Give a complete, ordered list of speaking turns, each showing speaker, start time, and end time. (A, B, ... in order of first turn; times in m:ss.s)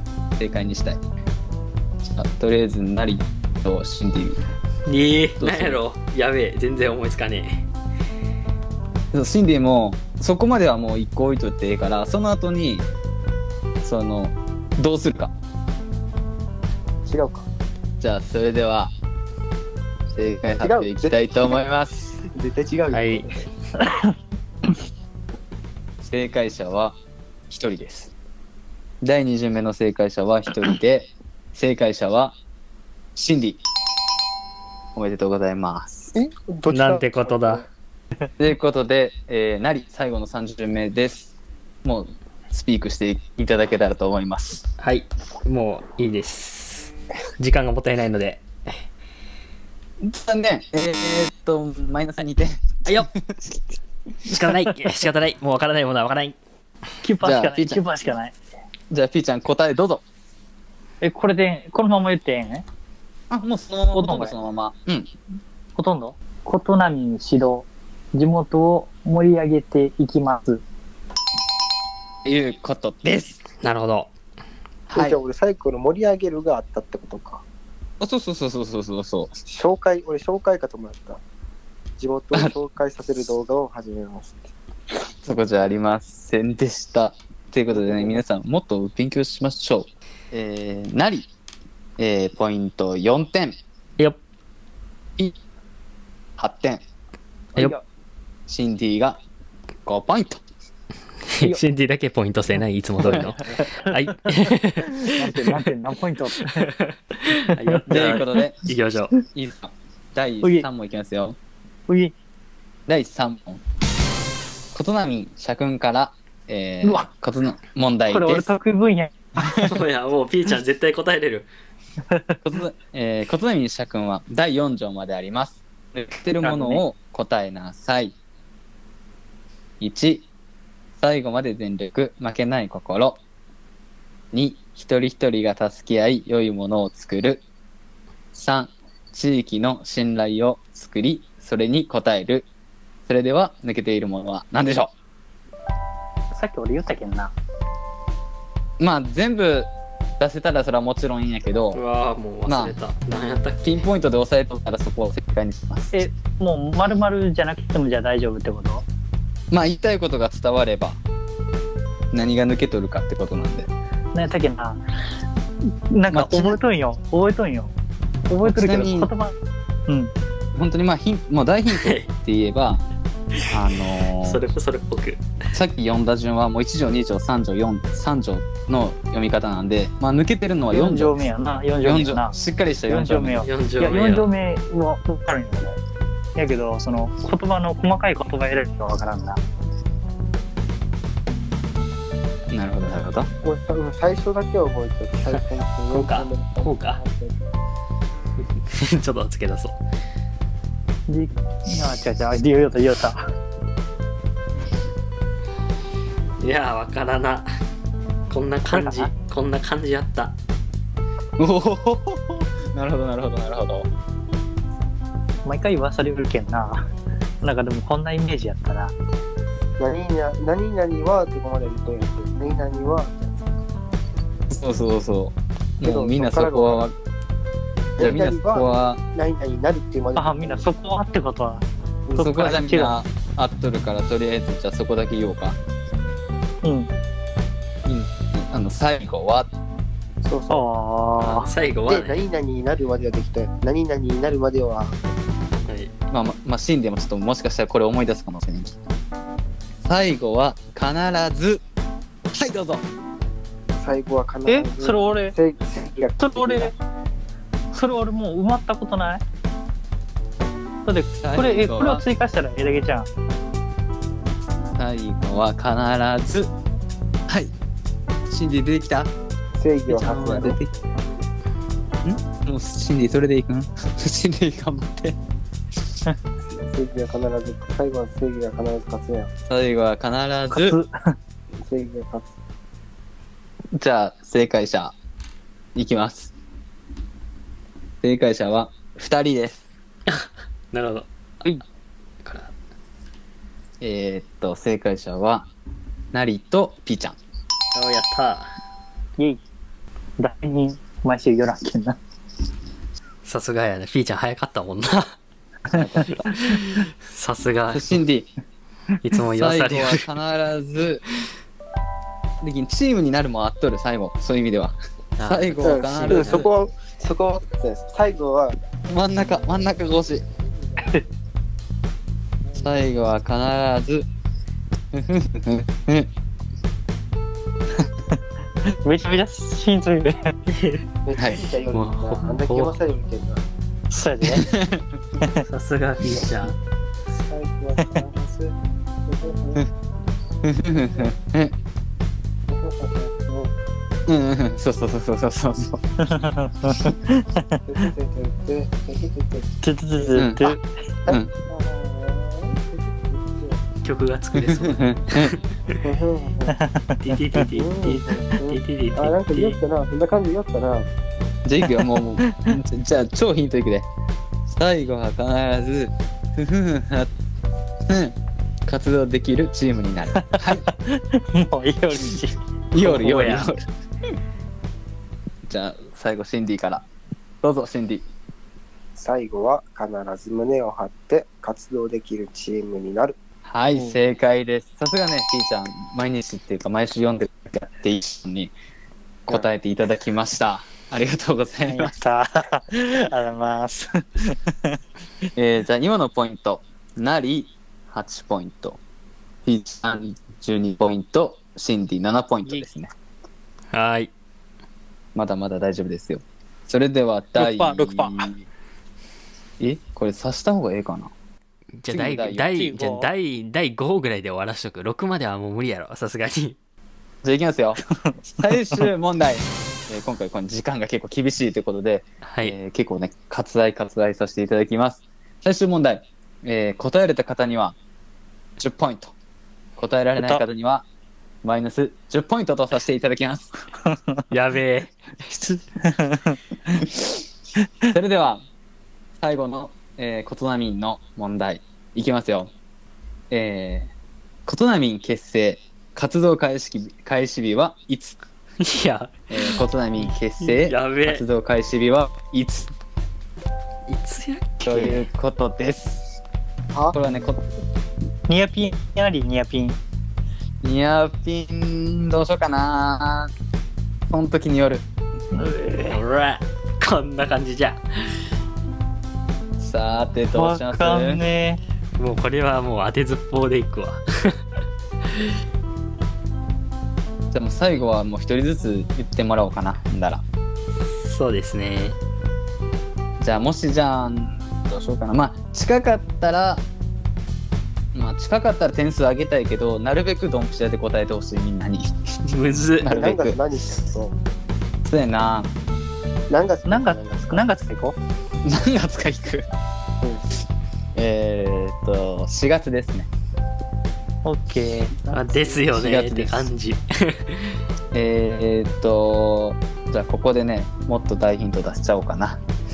0:00.4-0:01.0 A
0:02.0-0:04.4 A
0:04.9-0:07.6 B
0:05.4-0:05.8 A
0:09.1-0:12.9 A
0:13.8-0:15.3 A
0:17.0-0:17.4 C
0:18.0-0:18.9 A
0:20.1-0:22.2 A
0:20.6-0:21.3 C
0:22.2-0:23.3 C
0:22.9-0:23.3 B
0:23.8-0:24.0 D
0:26.0-0:27.0 A
0:27.5-0:28.1 A
0:29.0-0:32.4 A
0:33.1-0:33.6 A
0:34.9-0:36.1 A
0:36.1-0:37.7 C
0:36.7-0:37.6 B
0:38.4-0:41.3 A
0:41.8-0:44.6 A
0:44.8-0:48.8 B
0:50.0-0:53.3 A
0:54.2-0:56.4 B
0:57.0-0:58.3 D
0:57.2-0:57.8 A
0:58.9-1:00.0 A
1:01.0-1:02.6 D
1:03.3-1:05.1 A
1:03.9-1:04.4 D
1:05.8-1:10.6 D
1:12.2-1:13.4 A
1:13.6-1:14.1 B
1:14.9-1:15.2 A
1:14.9-1:17.4 C
1:18.0-1:19.3 A
1:19.5-1:21.2 C
1:22.0-1:24.5 C
1:25.2-1:31.3 A
1:27.7-1:28.2 C
1:32.0-1:33.6 A
1:36.4-1:36.8 A
1:38.5-1:39.2 A
1:39.8-1:40.4 A
1:41.3-1:45.1 B
1:43.8-1:44.3 D
1:45.0-1:46.7 D
1:45.2-1:45.5 A
1:46.6-1:49.1 B
1:47.5-1:47.8 D
1:47.9-1:48.6 A
1:49.3-1:51.4 A
1:51.9-1:52.1 D
1:52.9-1:53.6 A
1:54.7-1:58.5 A
1:56.8-1:57.1 D
1:58.1-1:59.6 D
1:59.6-2:01.5 B
2:02.4-2:08.1 A
2:06.4-2:06.8 D
2:09.8-2:10.3 A
2:11.0-2:13.2 A
2:14.3-2:17.4 A
2:18.3-2:22.5 A
2:23.1-2:24.9 A
2:26.3-2:27.3 D
2:28.8-2:31.8 A
2:31.7-2:33.8 B
2:32.4-2:32.8 A
2:33.6-2:36.0 A
2:35.9-2:38.8 D
2:39.5-2:41.0 A
2:42.1-2:43.7 A
2:44.1-2:44.8 D
2:45.9-2:47.7 D
2:46.1-2:46.6 A
2:48.3-2:49.3 D
2:48.4-2:49.1 A
2:50.5-2:52.8 A
2:51.7-2:52.1 B
2:53.5-2:54.4 A
2:54.2-2:55.2 B
2:55.5-3:01.2 A
3:00.7-3:02.4 D
3:01.8-3:03.5 A
3:02.9-3:05.8 D
3:03.4-3:04.3 B
3:06.4-3:09.4 D
3:12.5-3:13.3 A
3:13.4-3:17.4 C
3:15.9-3:17.0 B
3:18.6-3:19.8 B
3:21.1-3:23.2 D
3:26.4-3:27.5 B
3:28.3-3:30.3 B
3:28.7-3:29.1 D
3:31.4-3:33.9 A
3:35.4-3:36.9 D
3:37.4-3:38.9 D
3:39.8-3:43.6 C
3:44.5-3:46.9 A
3:45.8-3:46.8 C
3:48.0-3:50.6 C
3:48.0-3:49.0 A
3:50.2-3:53.0 D
3:52.2-3:55.6 A
3:56.6-3:56.9 D
3:57.8-3:59.5 A
4:00.2-4:00.6 C
4:00.5-4:01.5 D
4:01.2-4:02.2 B
4:01.9-4:05.0 C
4:05.7-4:05.9 B
4:06.1-4:08.7 A
4:09.8-4:11.6 A
4:12.3-4:12.8 A
4:13.8-4:16.7 C
4:14.5-4:15.3 D
4:16.2-4:16.7 D
4:17.7-4:19.2 D
4:20.8-4:23.1 D
4:21.2-4:22.0 A
4:24.7-4:26.5 A
4:27.3-4:27.5 A
4:28.3-4:29.1 A
4:29.6-4:30.6 C
4:29.9-4:30.6 A
4:32.0-4:35.2 A
4:36.4-4:39.3 C
4:39.5-4:40.8 A
4:40.5-4:40.9 D
4:41.6-4:42.3 C
4:43.7-4:44.9 A
4:45.7-4:46.3 A
4:48.0-4:49.6 A
4:50.1-4:51.6 B
4:52.2-4:52.5 B
4:53.8-4:55.5 A
4:56.1-4:57.2 A
4:57.7-4:58.5 B
5:00.2-5:02.0 D
5:03.2-5:05.1 B
5:05.7-5:06.3 A
5:06.4-5:08.0 B
5:07.7-5:08.3 A
5:09.0-5:10.0 B
5:09.4-5:11.0 A
5:12.4-5:16.5 A
5:15.2-5:16.5 B
5:15.6-5:18.6 C
5:18.9-5:20.2 A
5:20.8-5:21.0 C
5:22.6-5:24.1 A
5:24.9-5:26.1 A
5:28.6-5:30.4 D
5:30.5-5:30.8 B
5:31.0-5:33.4 C
5:31.1-5:31.4 A
5:31.7-5:32.8 B
5:33.9-5:34.5 D
5:34.3-5:34.8 A
5:35.4-5:36.6 B
5:37.1-5:38.5 C
5:39.1-5:39.6 C
5:40.4-5:41.5 A
5:42.5-5:43.5 C
5:44.1-5:45.8 A
5:46.0-5:47.6 D
5:47.6-5:50.2 C
5:49.6-5:50.6 D
5:50.2-5:50.5 A
5:51.1-5:53.6 C
5:53.8-5:55.4 B
5:54.3-5:55.4 A
5:55.8-5:56.6 C
5:56.5-5:57.0 D
5:57.0-5:59.6 B
5:57.5-6:00.9 C
6:01.4-6:03.9 A
6:01.8-6:02.6 D
6:04.5-6:07.1 A
6:07.8-6:08.2 A
6:08.7-6:10.6 A
6:10.2-6:13.4 D
6:12.7-6:13.6 A
6:15.5-6:16.8 A
6:17.4-6:18.0 A
6:19.0-6:23.2 C
6:23.4-6:28.5 A
6:29.3-6:31.9 A
6:31.6-6:34.8 D
6:35.4-6:38.8 A
6:39.4-6:42.9 A
6:43.7-6:44.1 B
6:45.1-6:48.4 A
6:47.4-6:48.3 D
6:49.6-6:51.1 A
6:51.8-6:56.6 B
6:51.9-6:52.7 A
6:52.5-6:53.1 D
6:57.2-7:07.8 A
7:02.2-7:02.6 B
7:08.6-7:09.1 A
7:09.8-7:10.8 A
7:11.4-7:13.5 A
7:13.8-7:14.2 D
7:14.3-7:15.6 B
7:15.8-7:16.8 D
7:17.6-7:17.9 D
7:17.9-7:18.4 A
7:19.2-7:22.5 A
7:23.3-7:23.9 A
7:24.4-7:28.2 A
7:28.6-7:29.5 B
7:29.3-7:32.7 A
7:30.4-7:31.2 B
7:33.9-7:35.0 B
7:34.6-7:36.2 A
7:36.9-7:37.5 A
7:38.3-7:39.8 D
7:40.6-7:43.3 A
7:44.1-7:44.8 A
7:45.3-7:46.0 D
7:45.9-7:48.2 B
7:49.6-7:51.2 A
7:50.3-7:51.6 D
7:52.0-7:54.4 B
7:57.3-8:00.2 A
8:00.9-8:02.0 B
8:03.2-8:06.6 A
8:07.9-8:12.2 A
8:12.2-8:12.9 B
8:12.8-8:13.4 A
8:12.9-8:14.1 C
8:14.8-8:15.5 A
8:16.3-8:17.4 C
8:16.6-8:18.0 D
8:18.4-8:19.5 A
8:20.9-8:23.1 A
8:24.2-8:25.5 D
8:25.1-8:27.6 B
8:25.7-8:26.5 A
8:27.9-8:32.4 A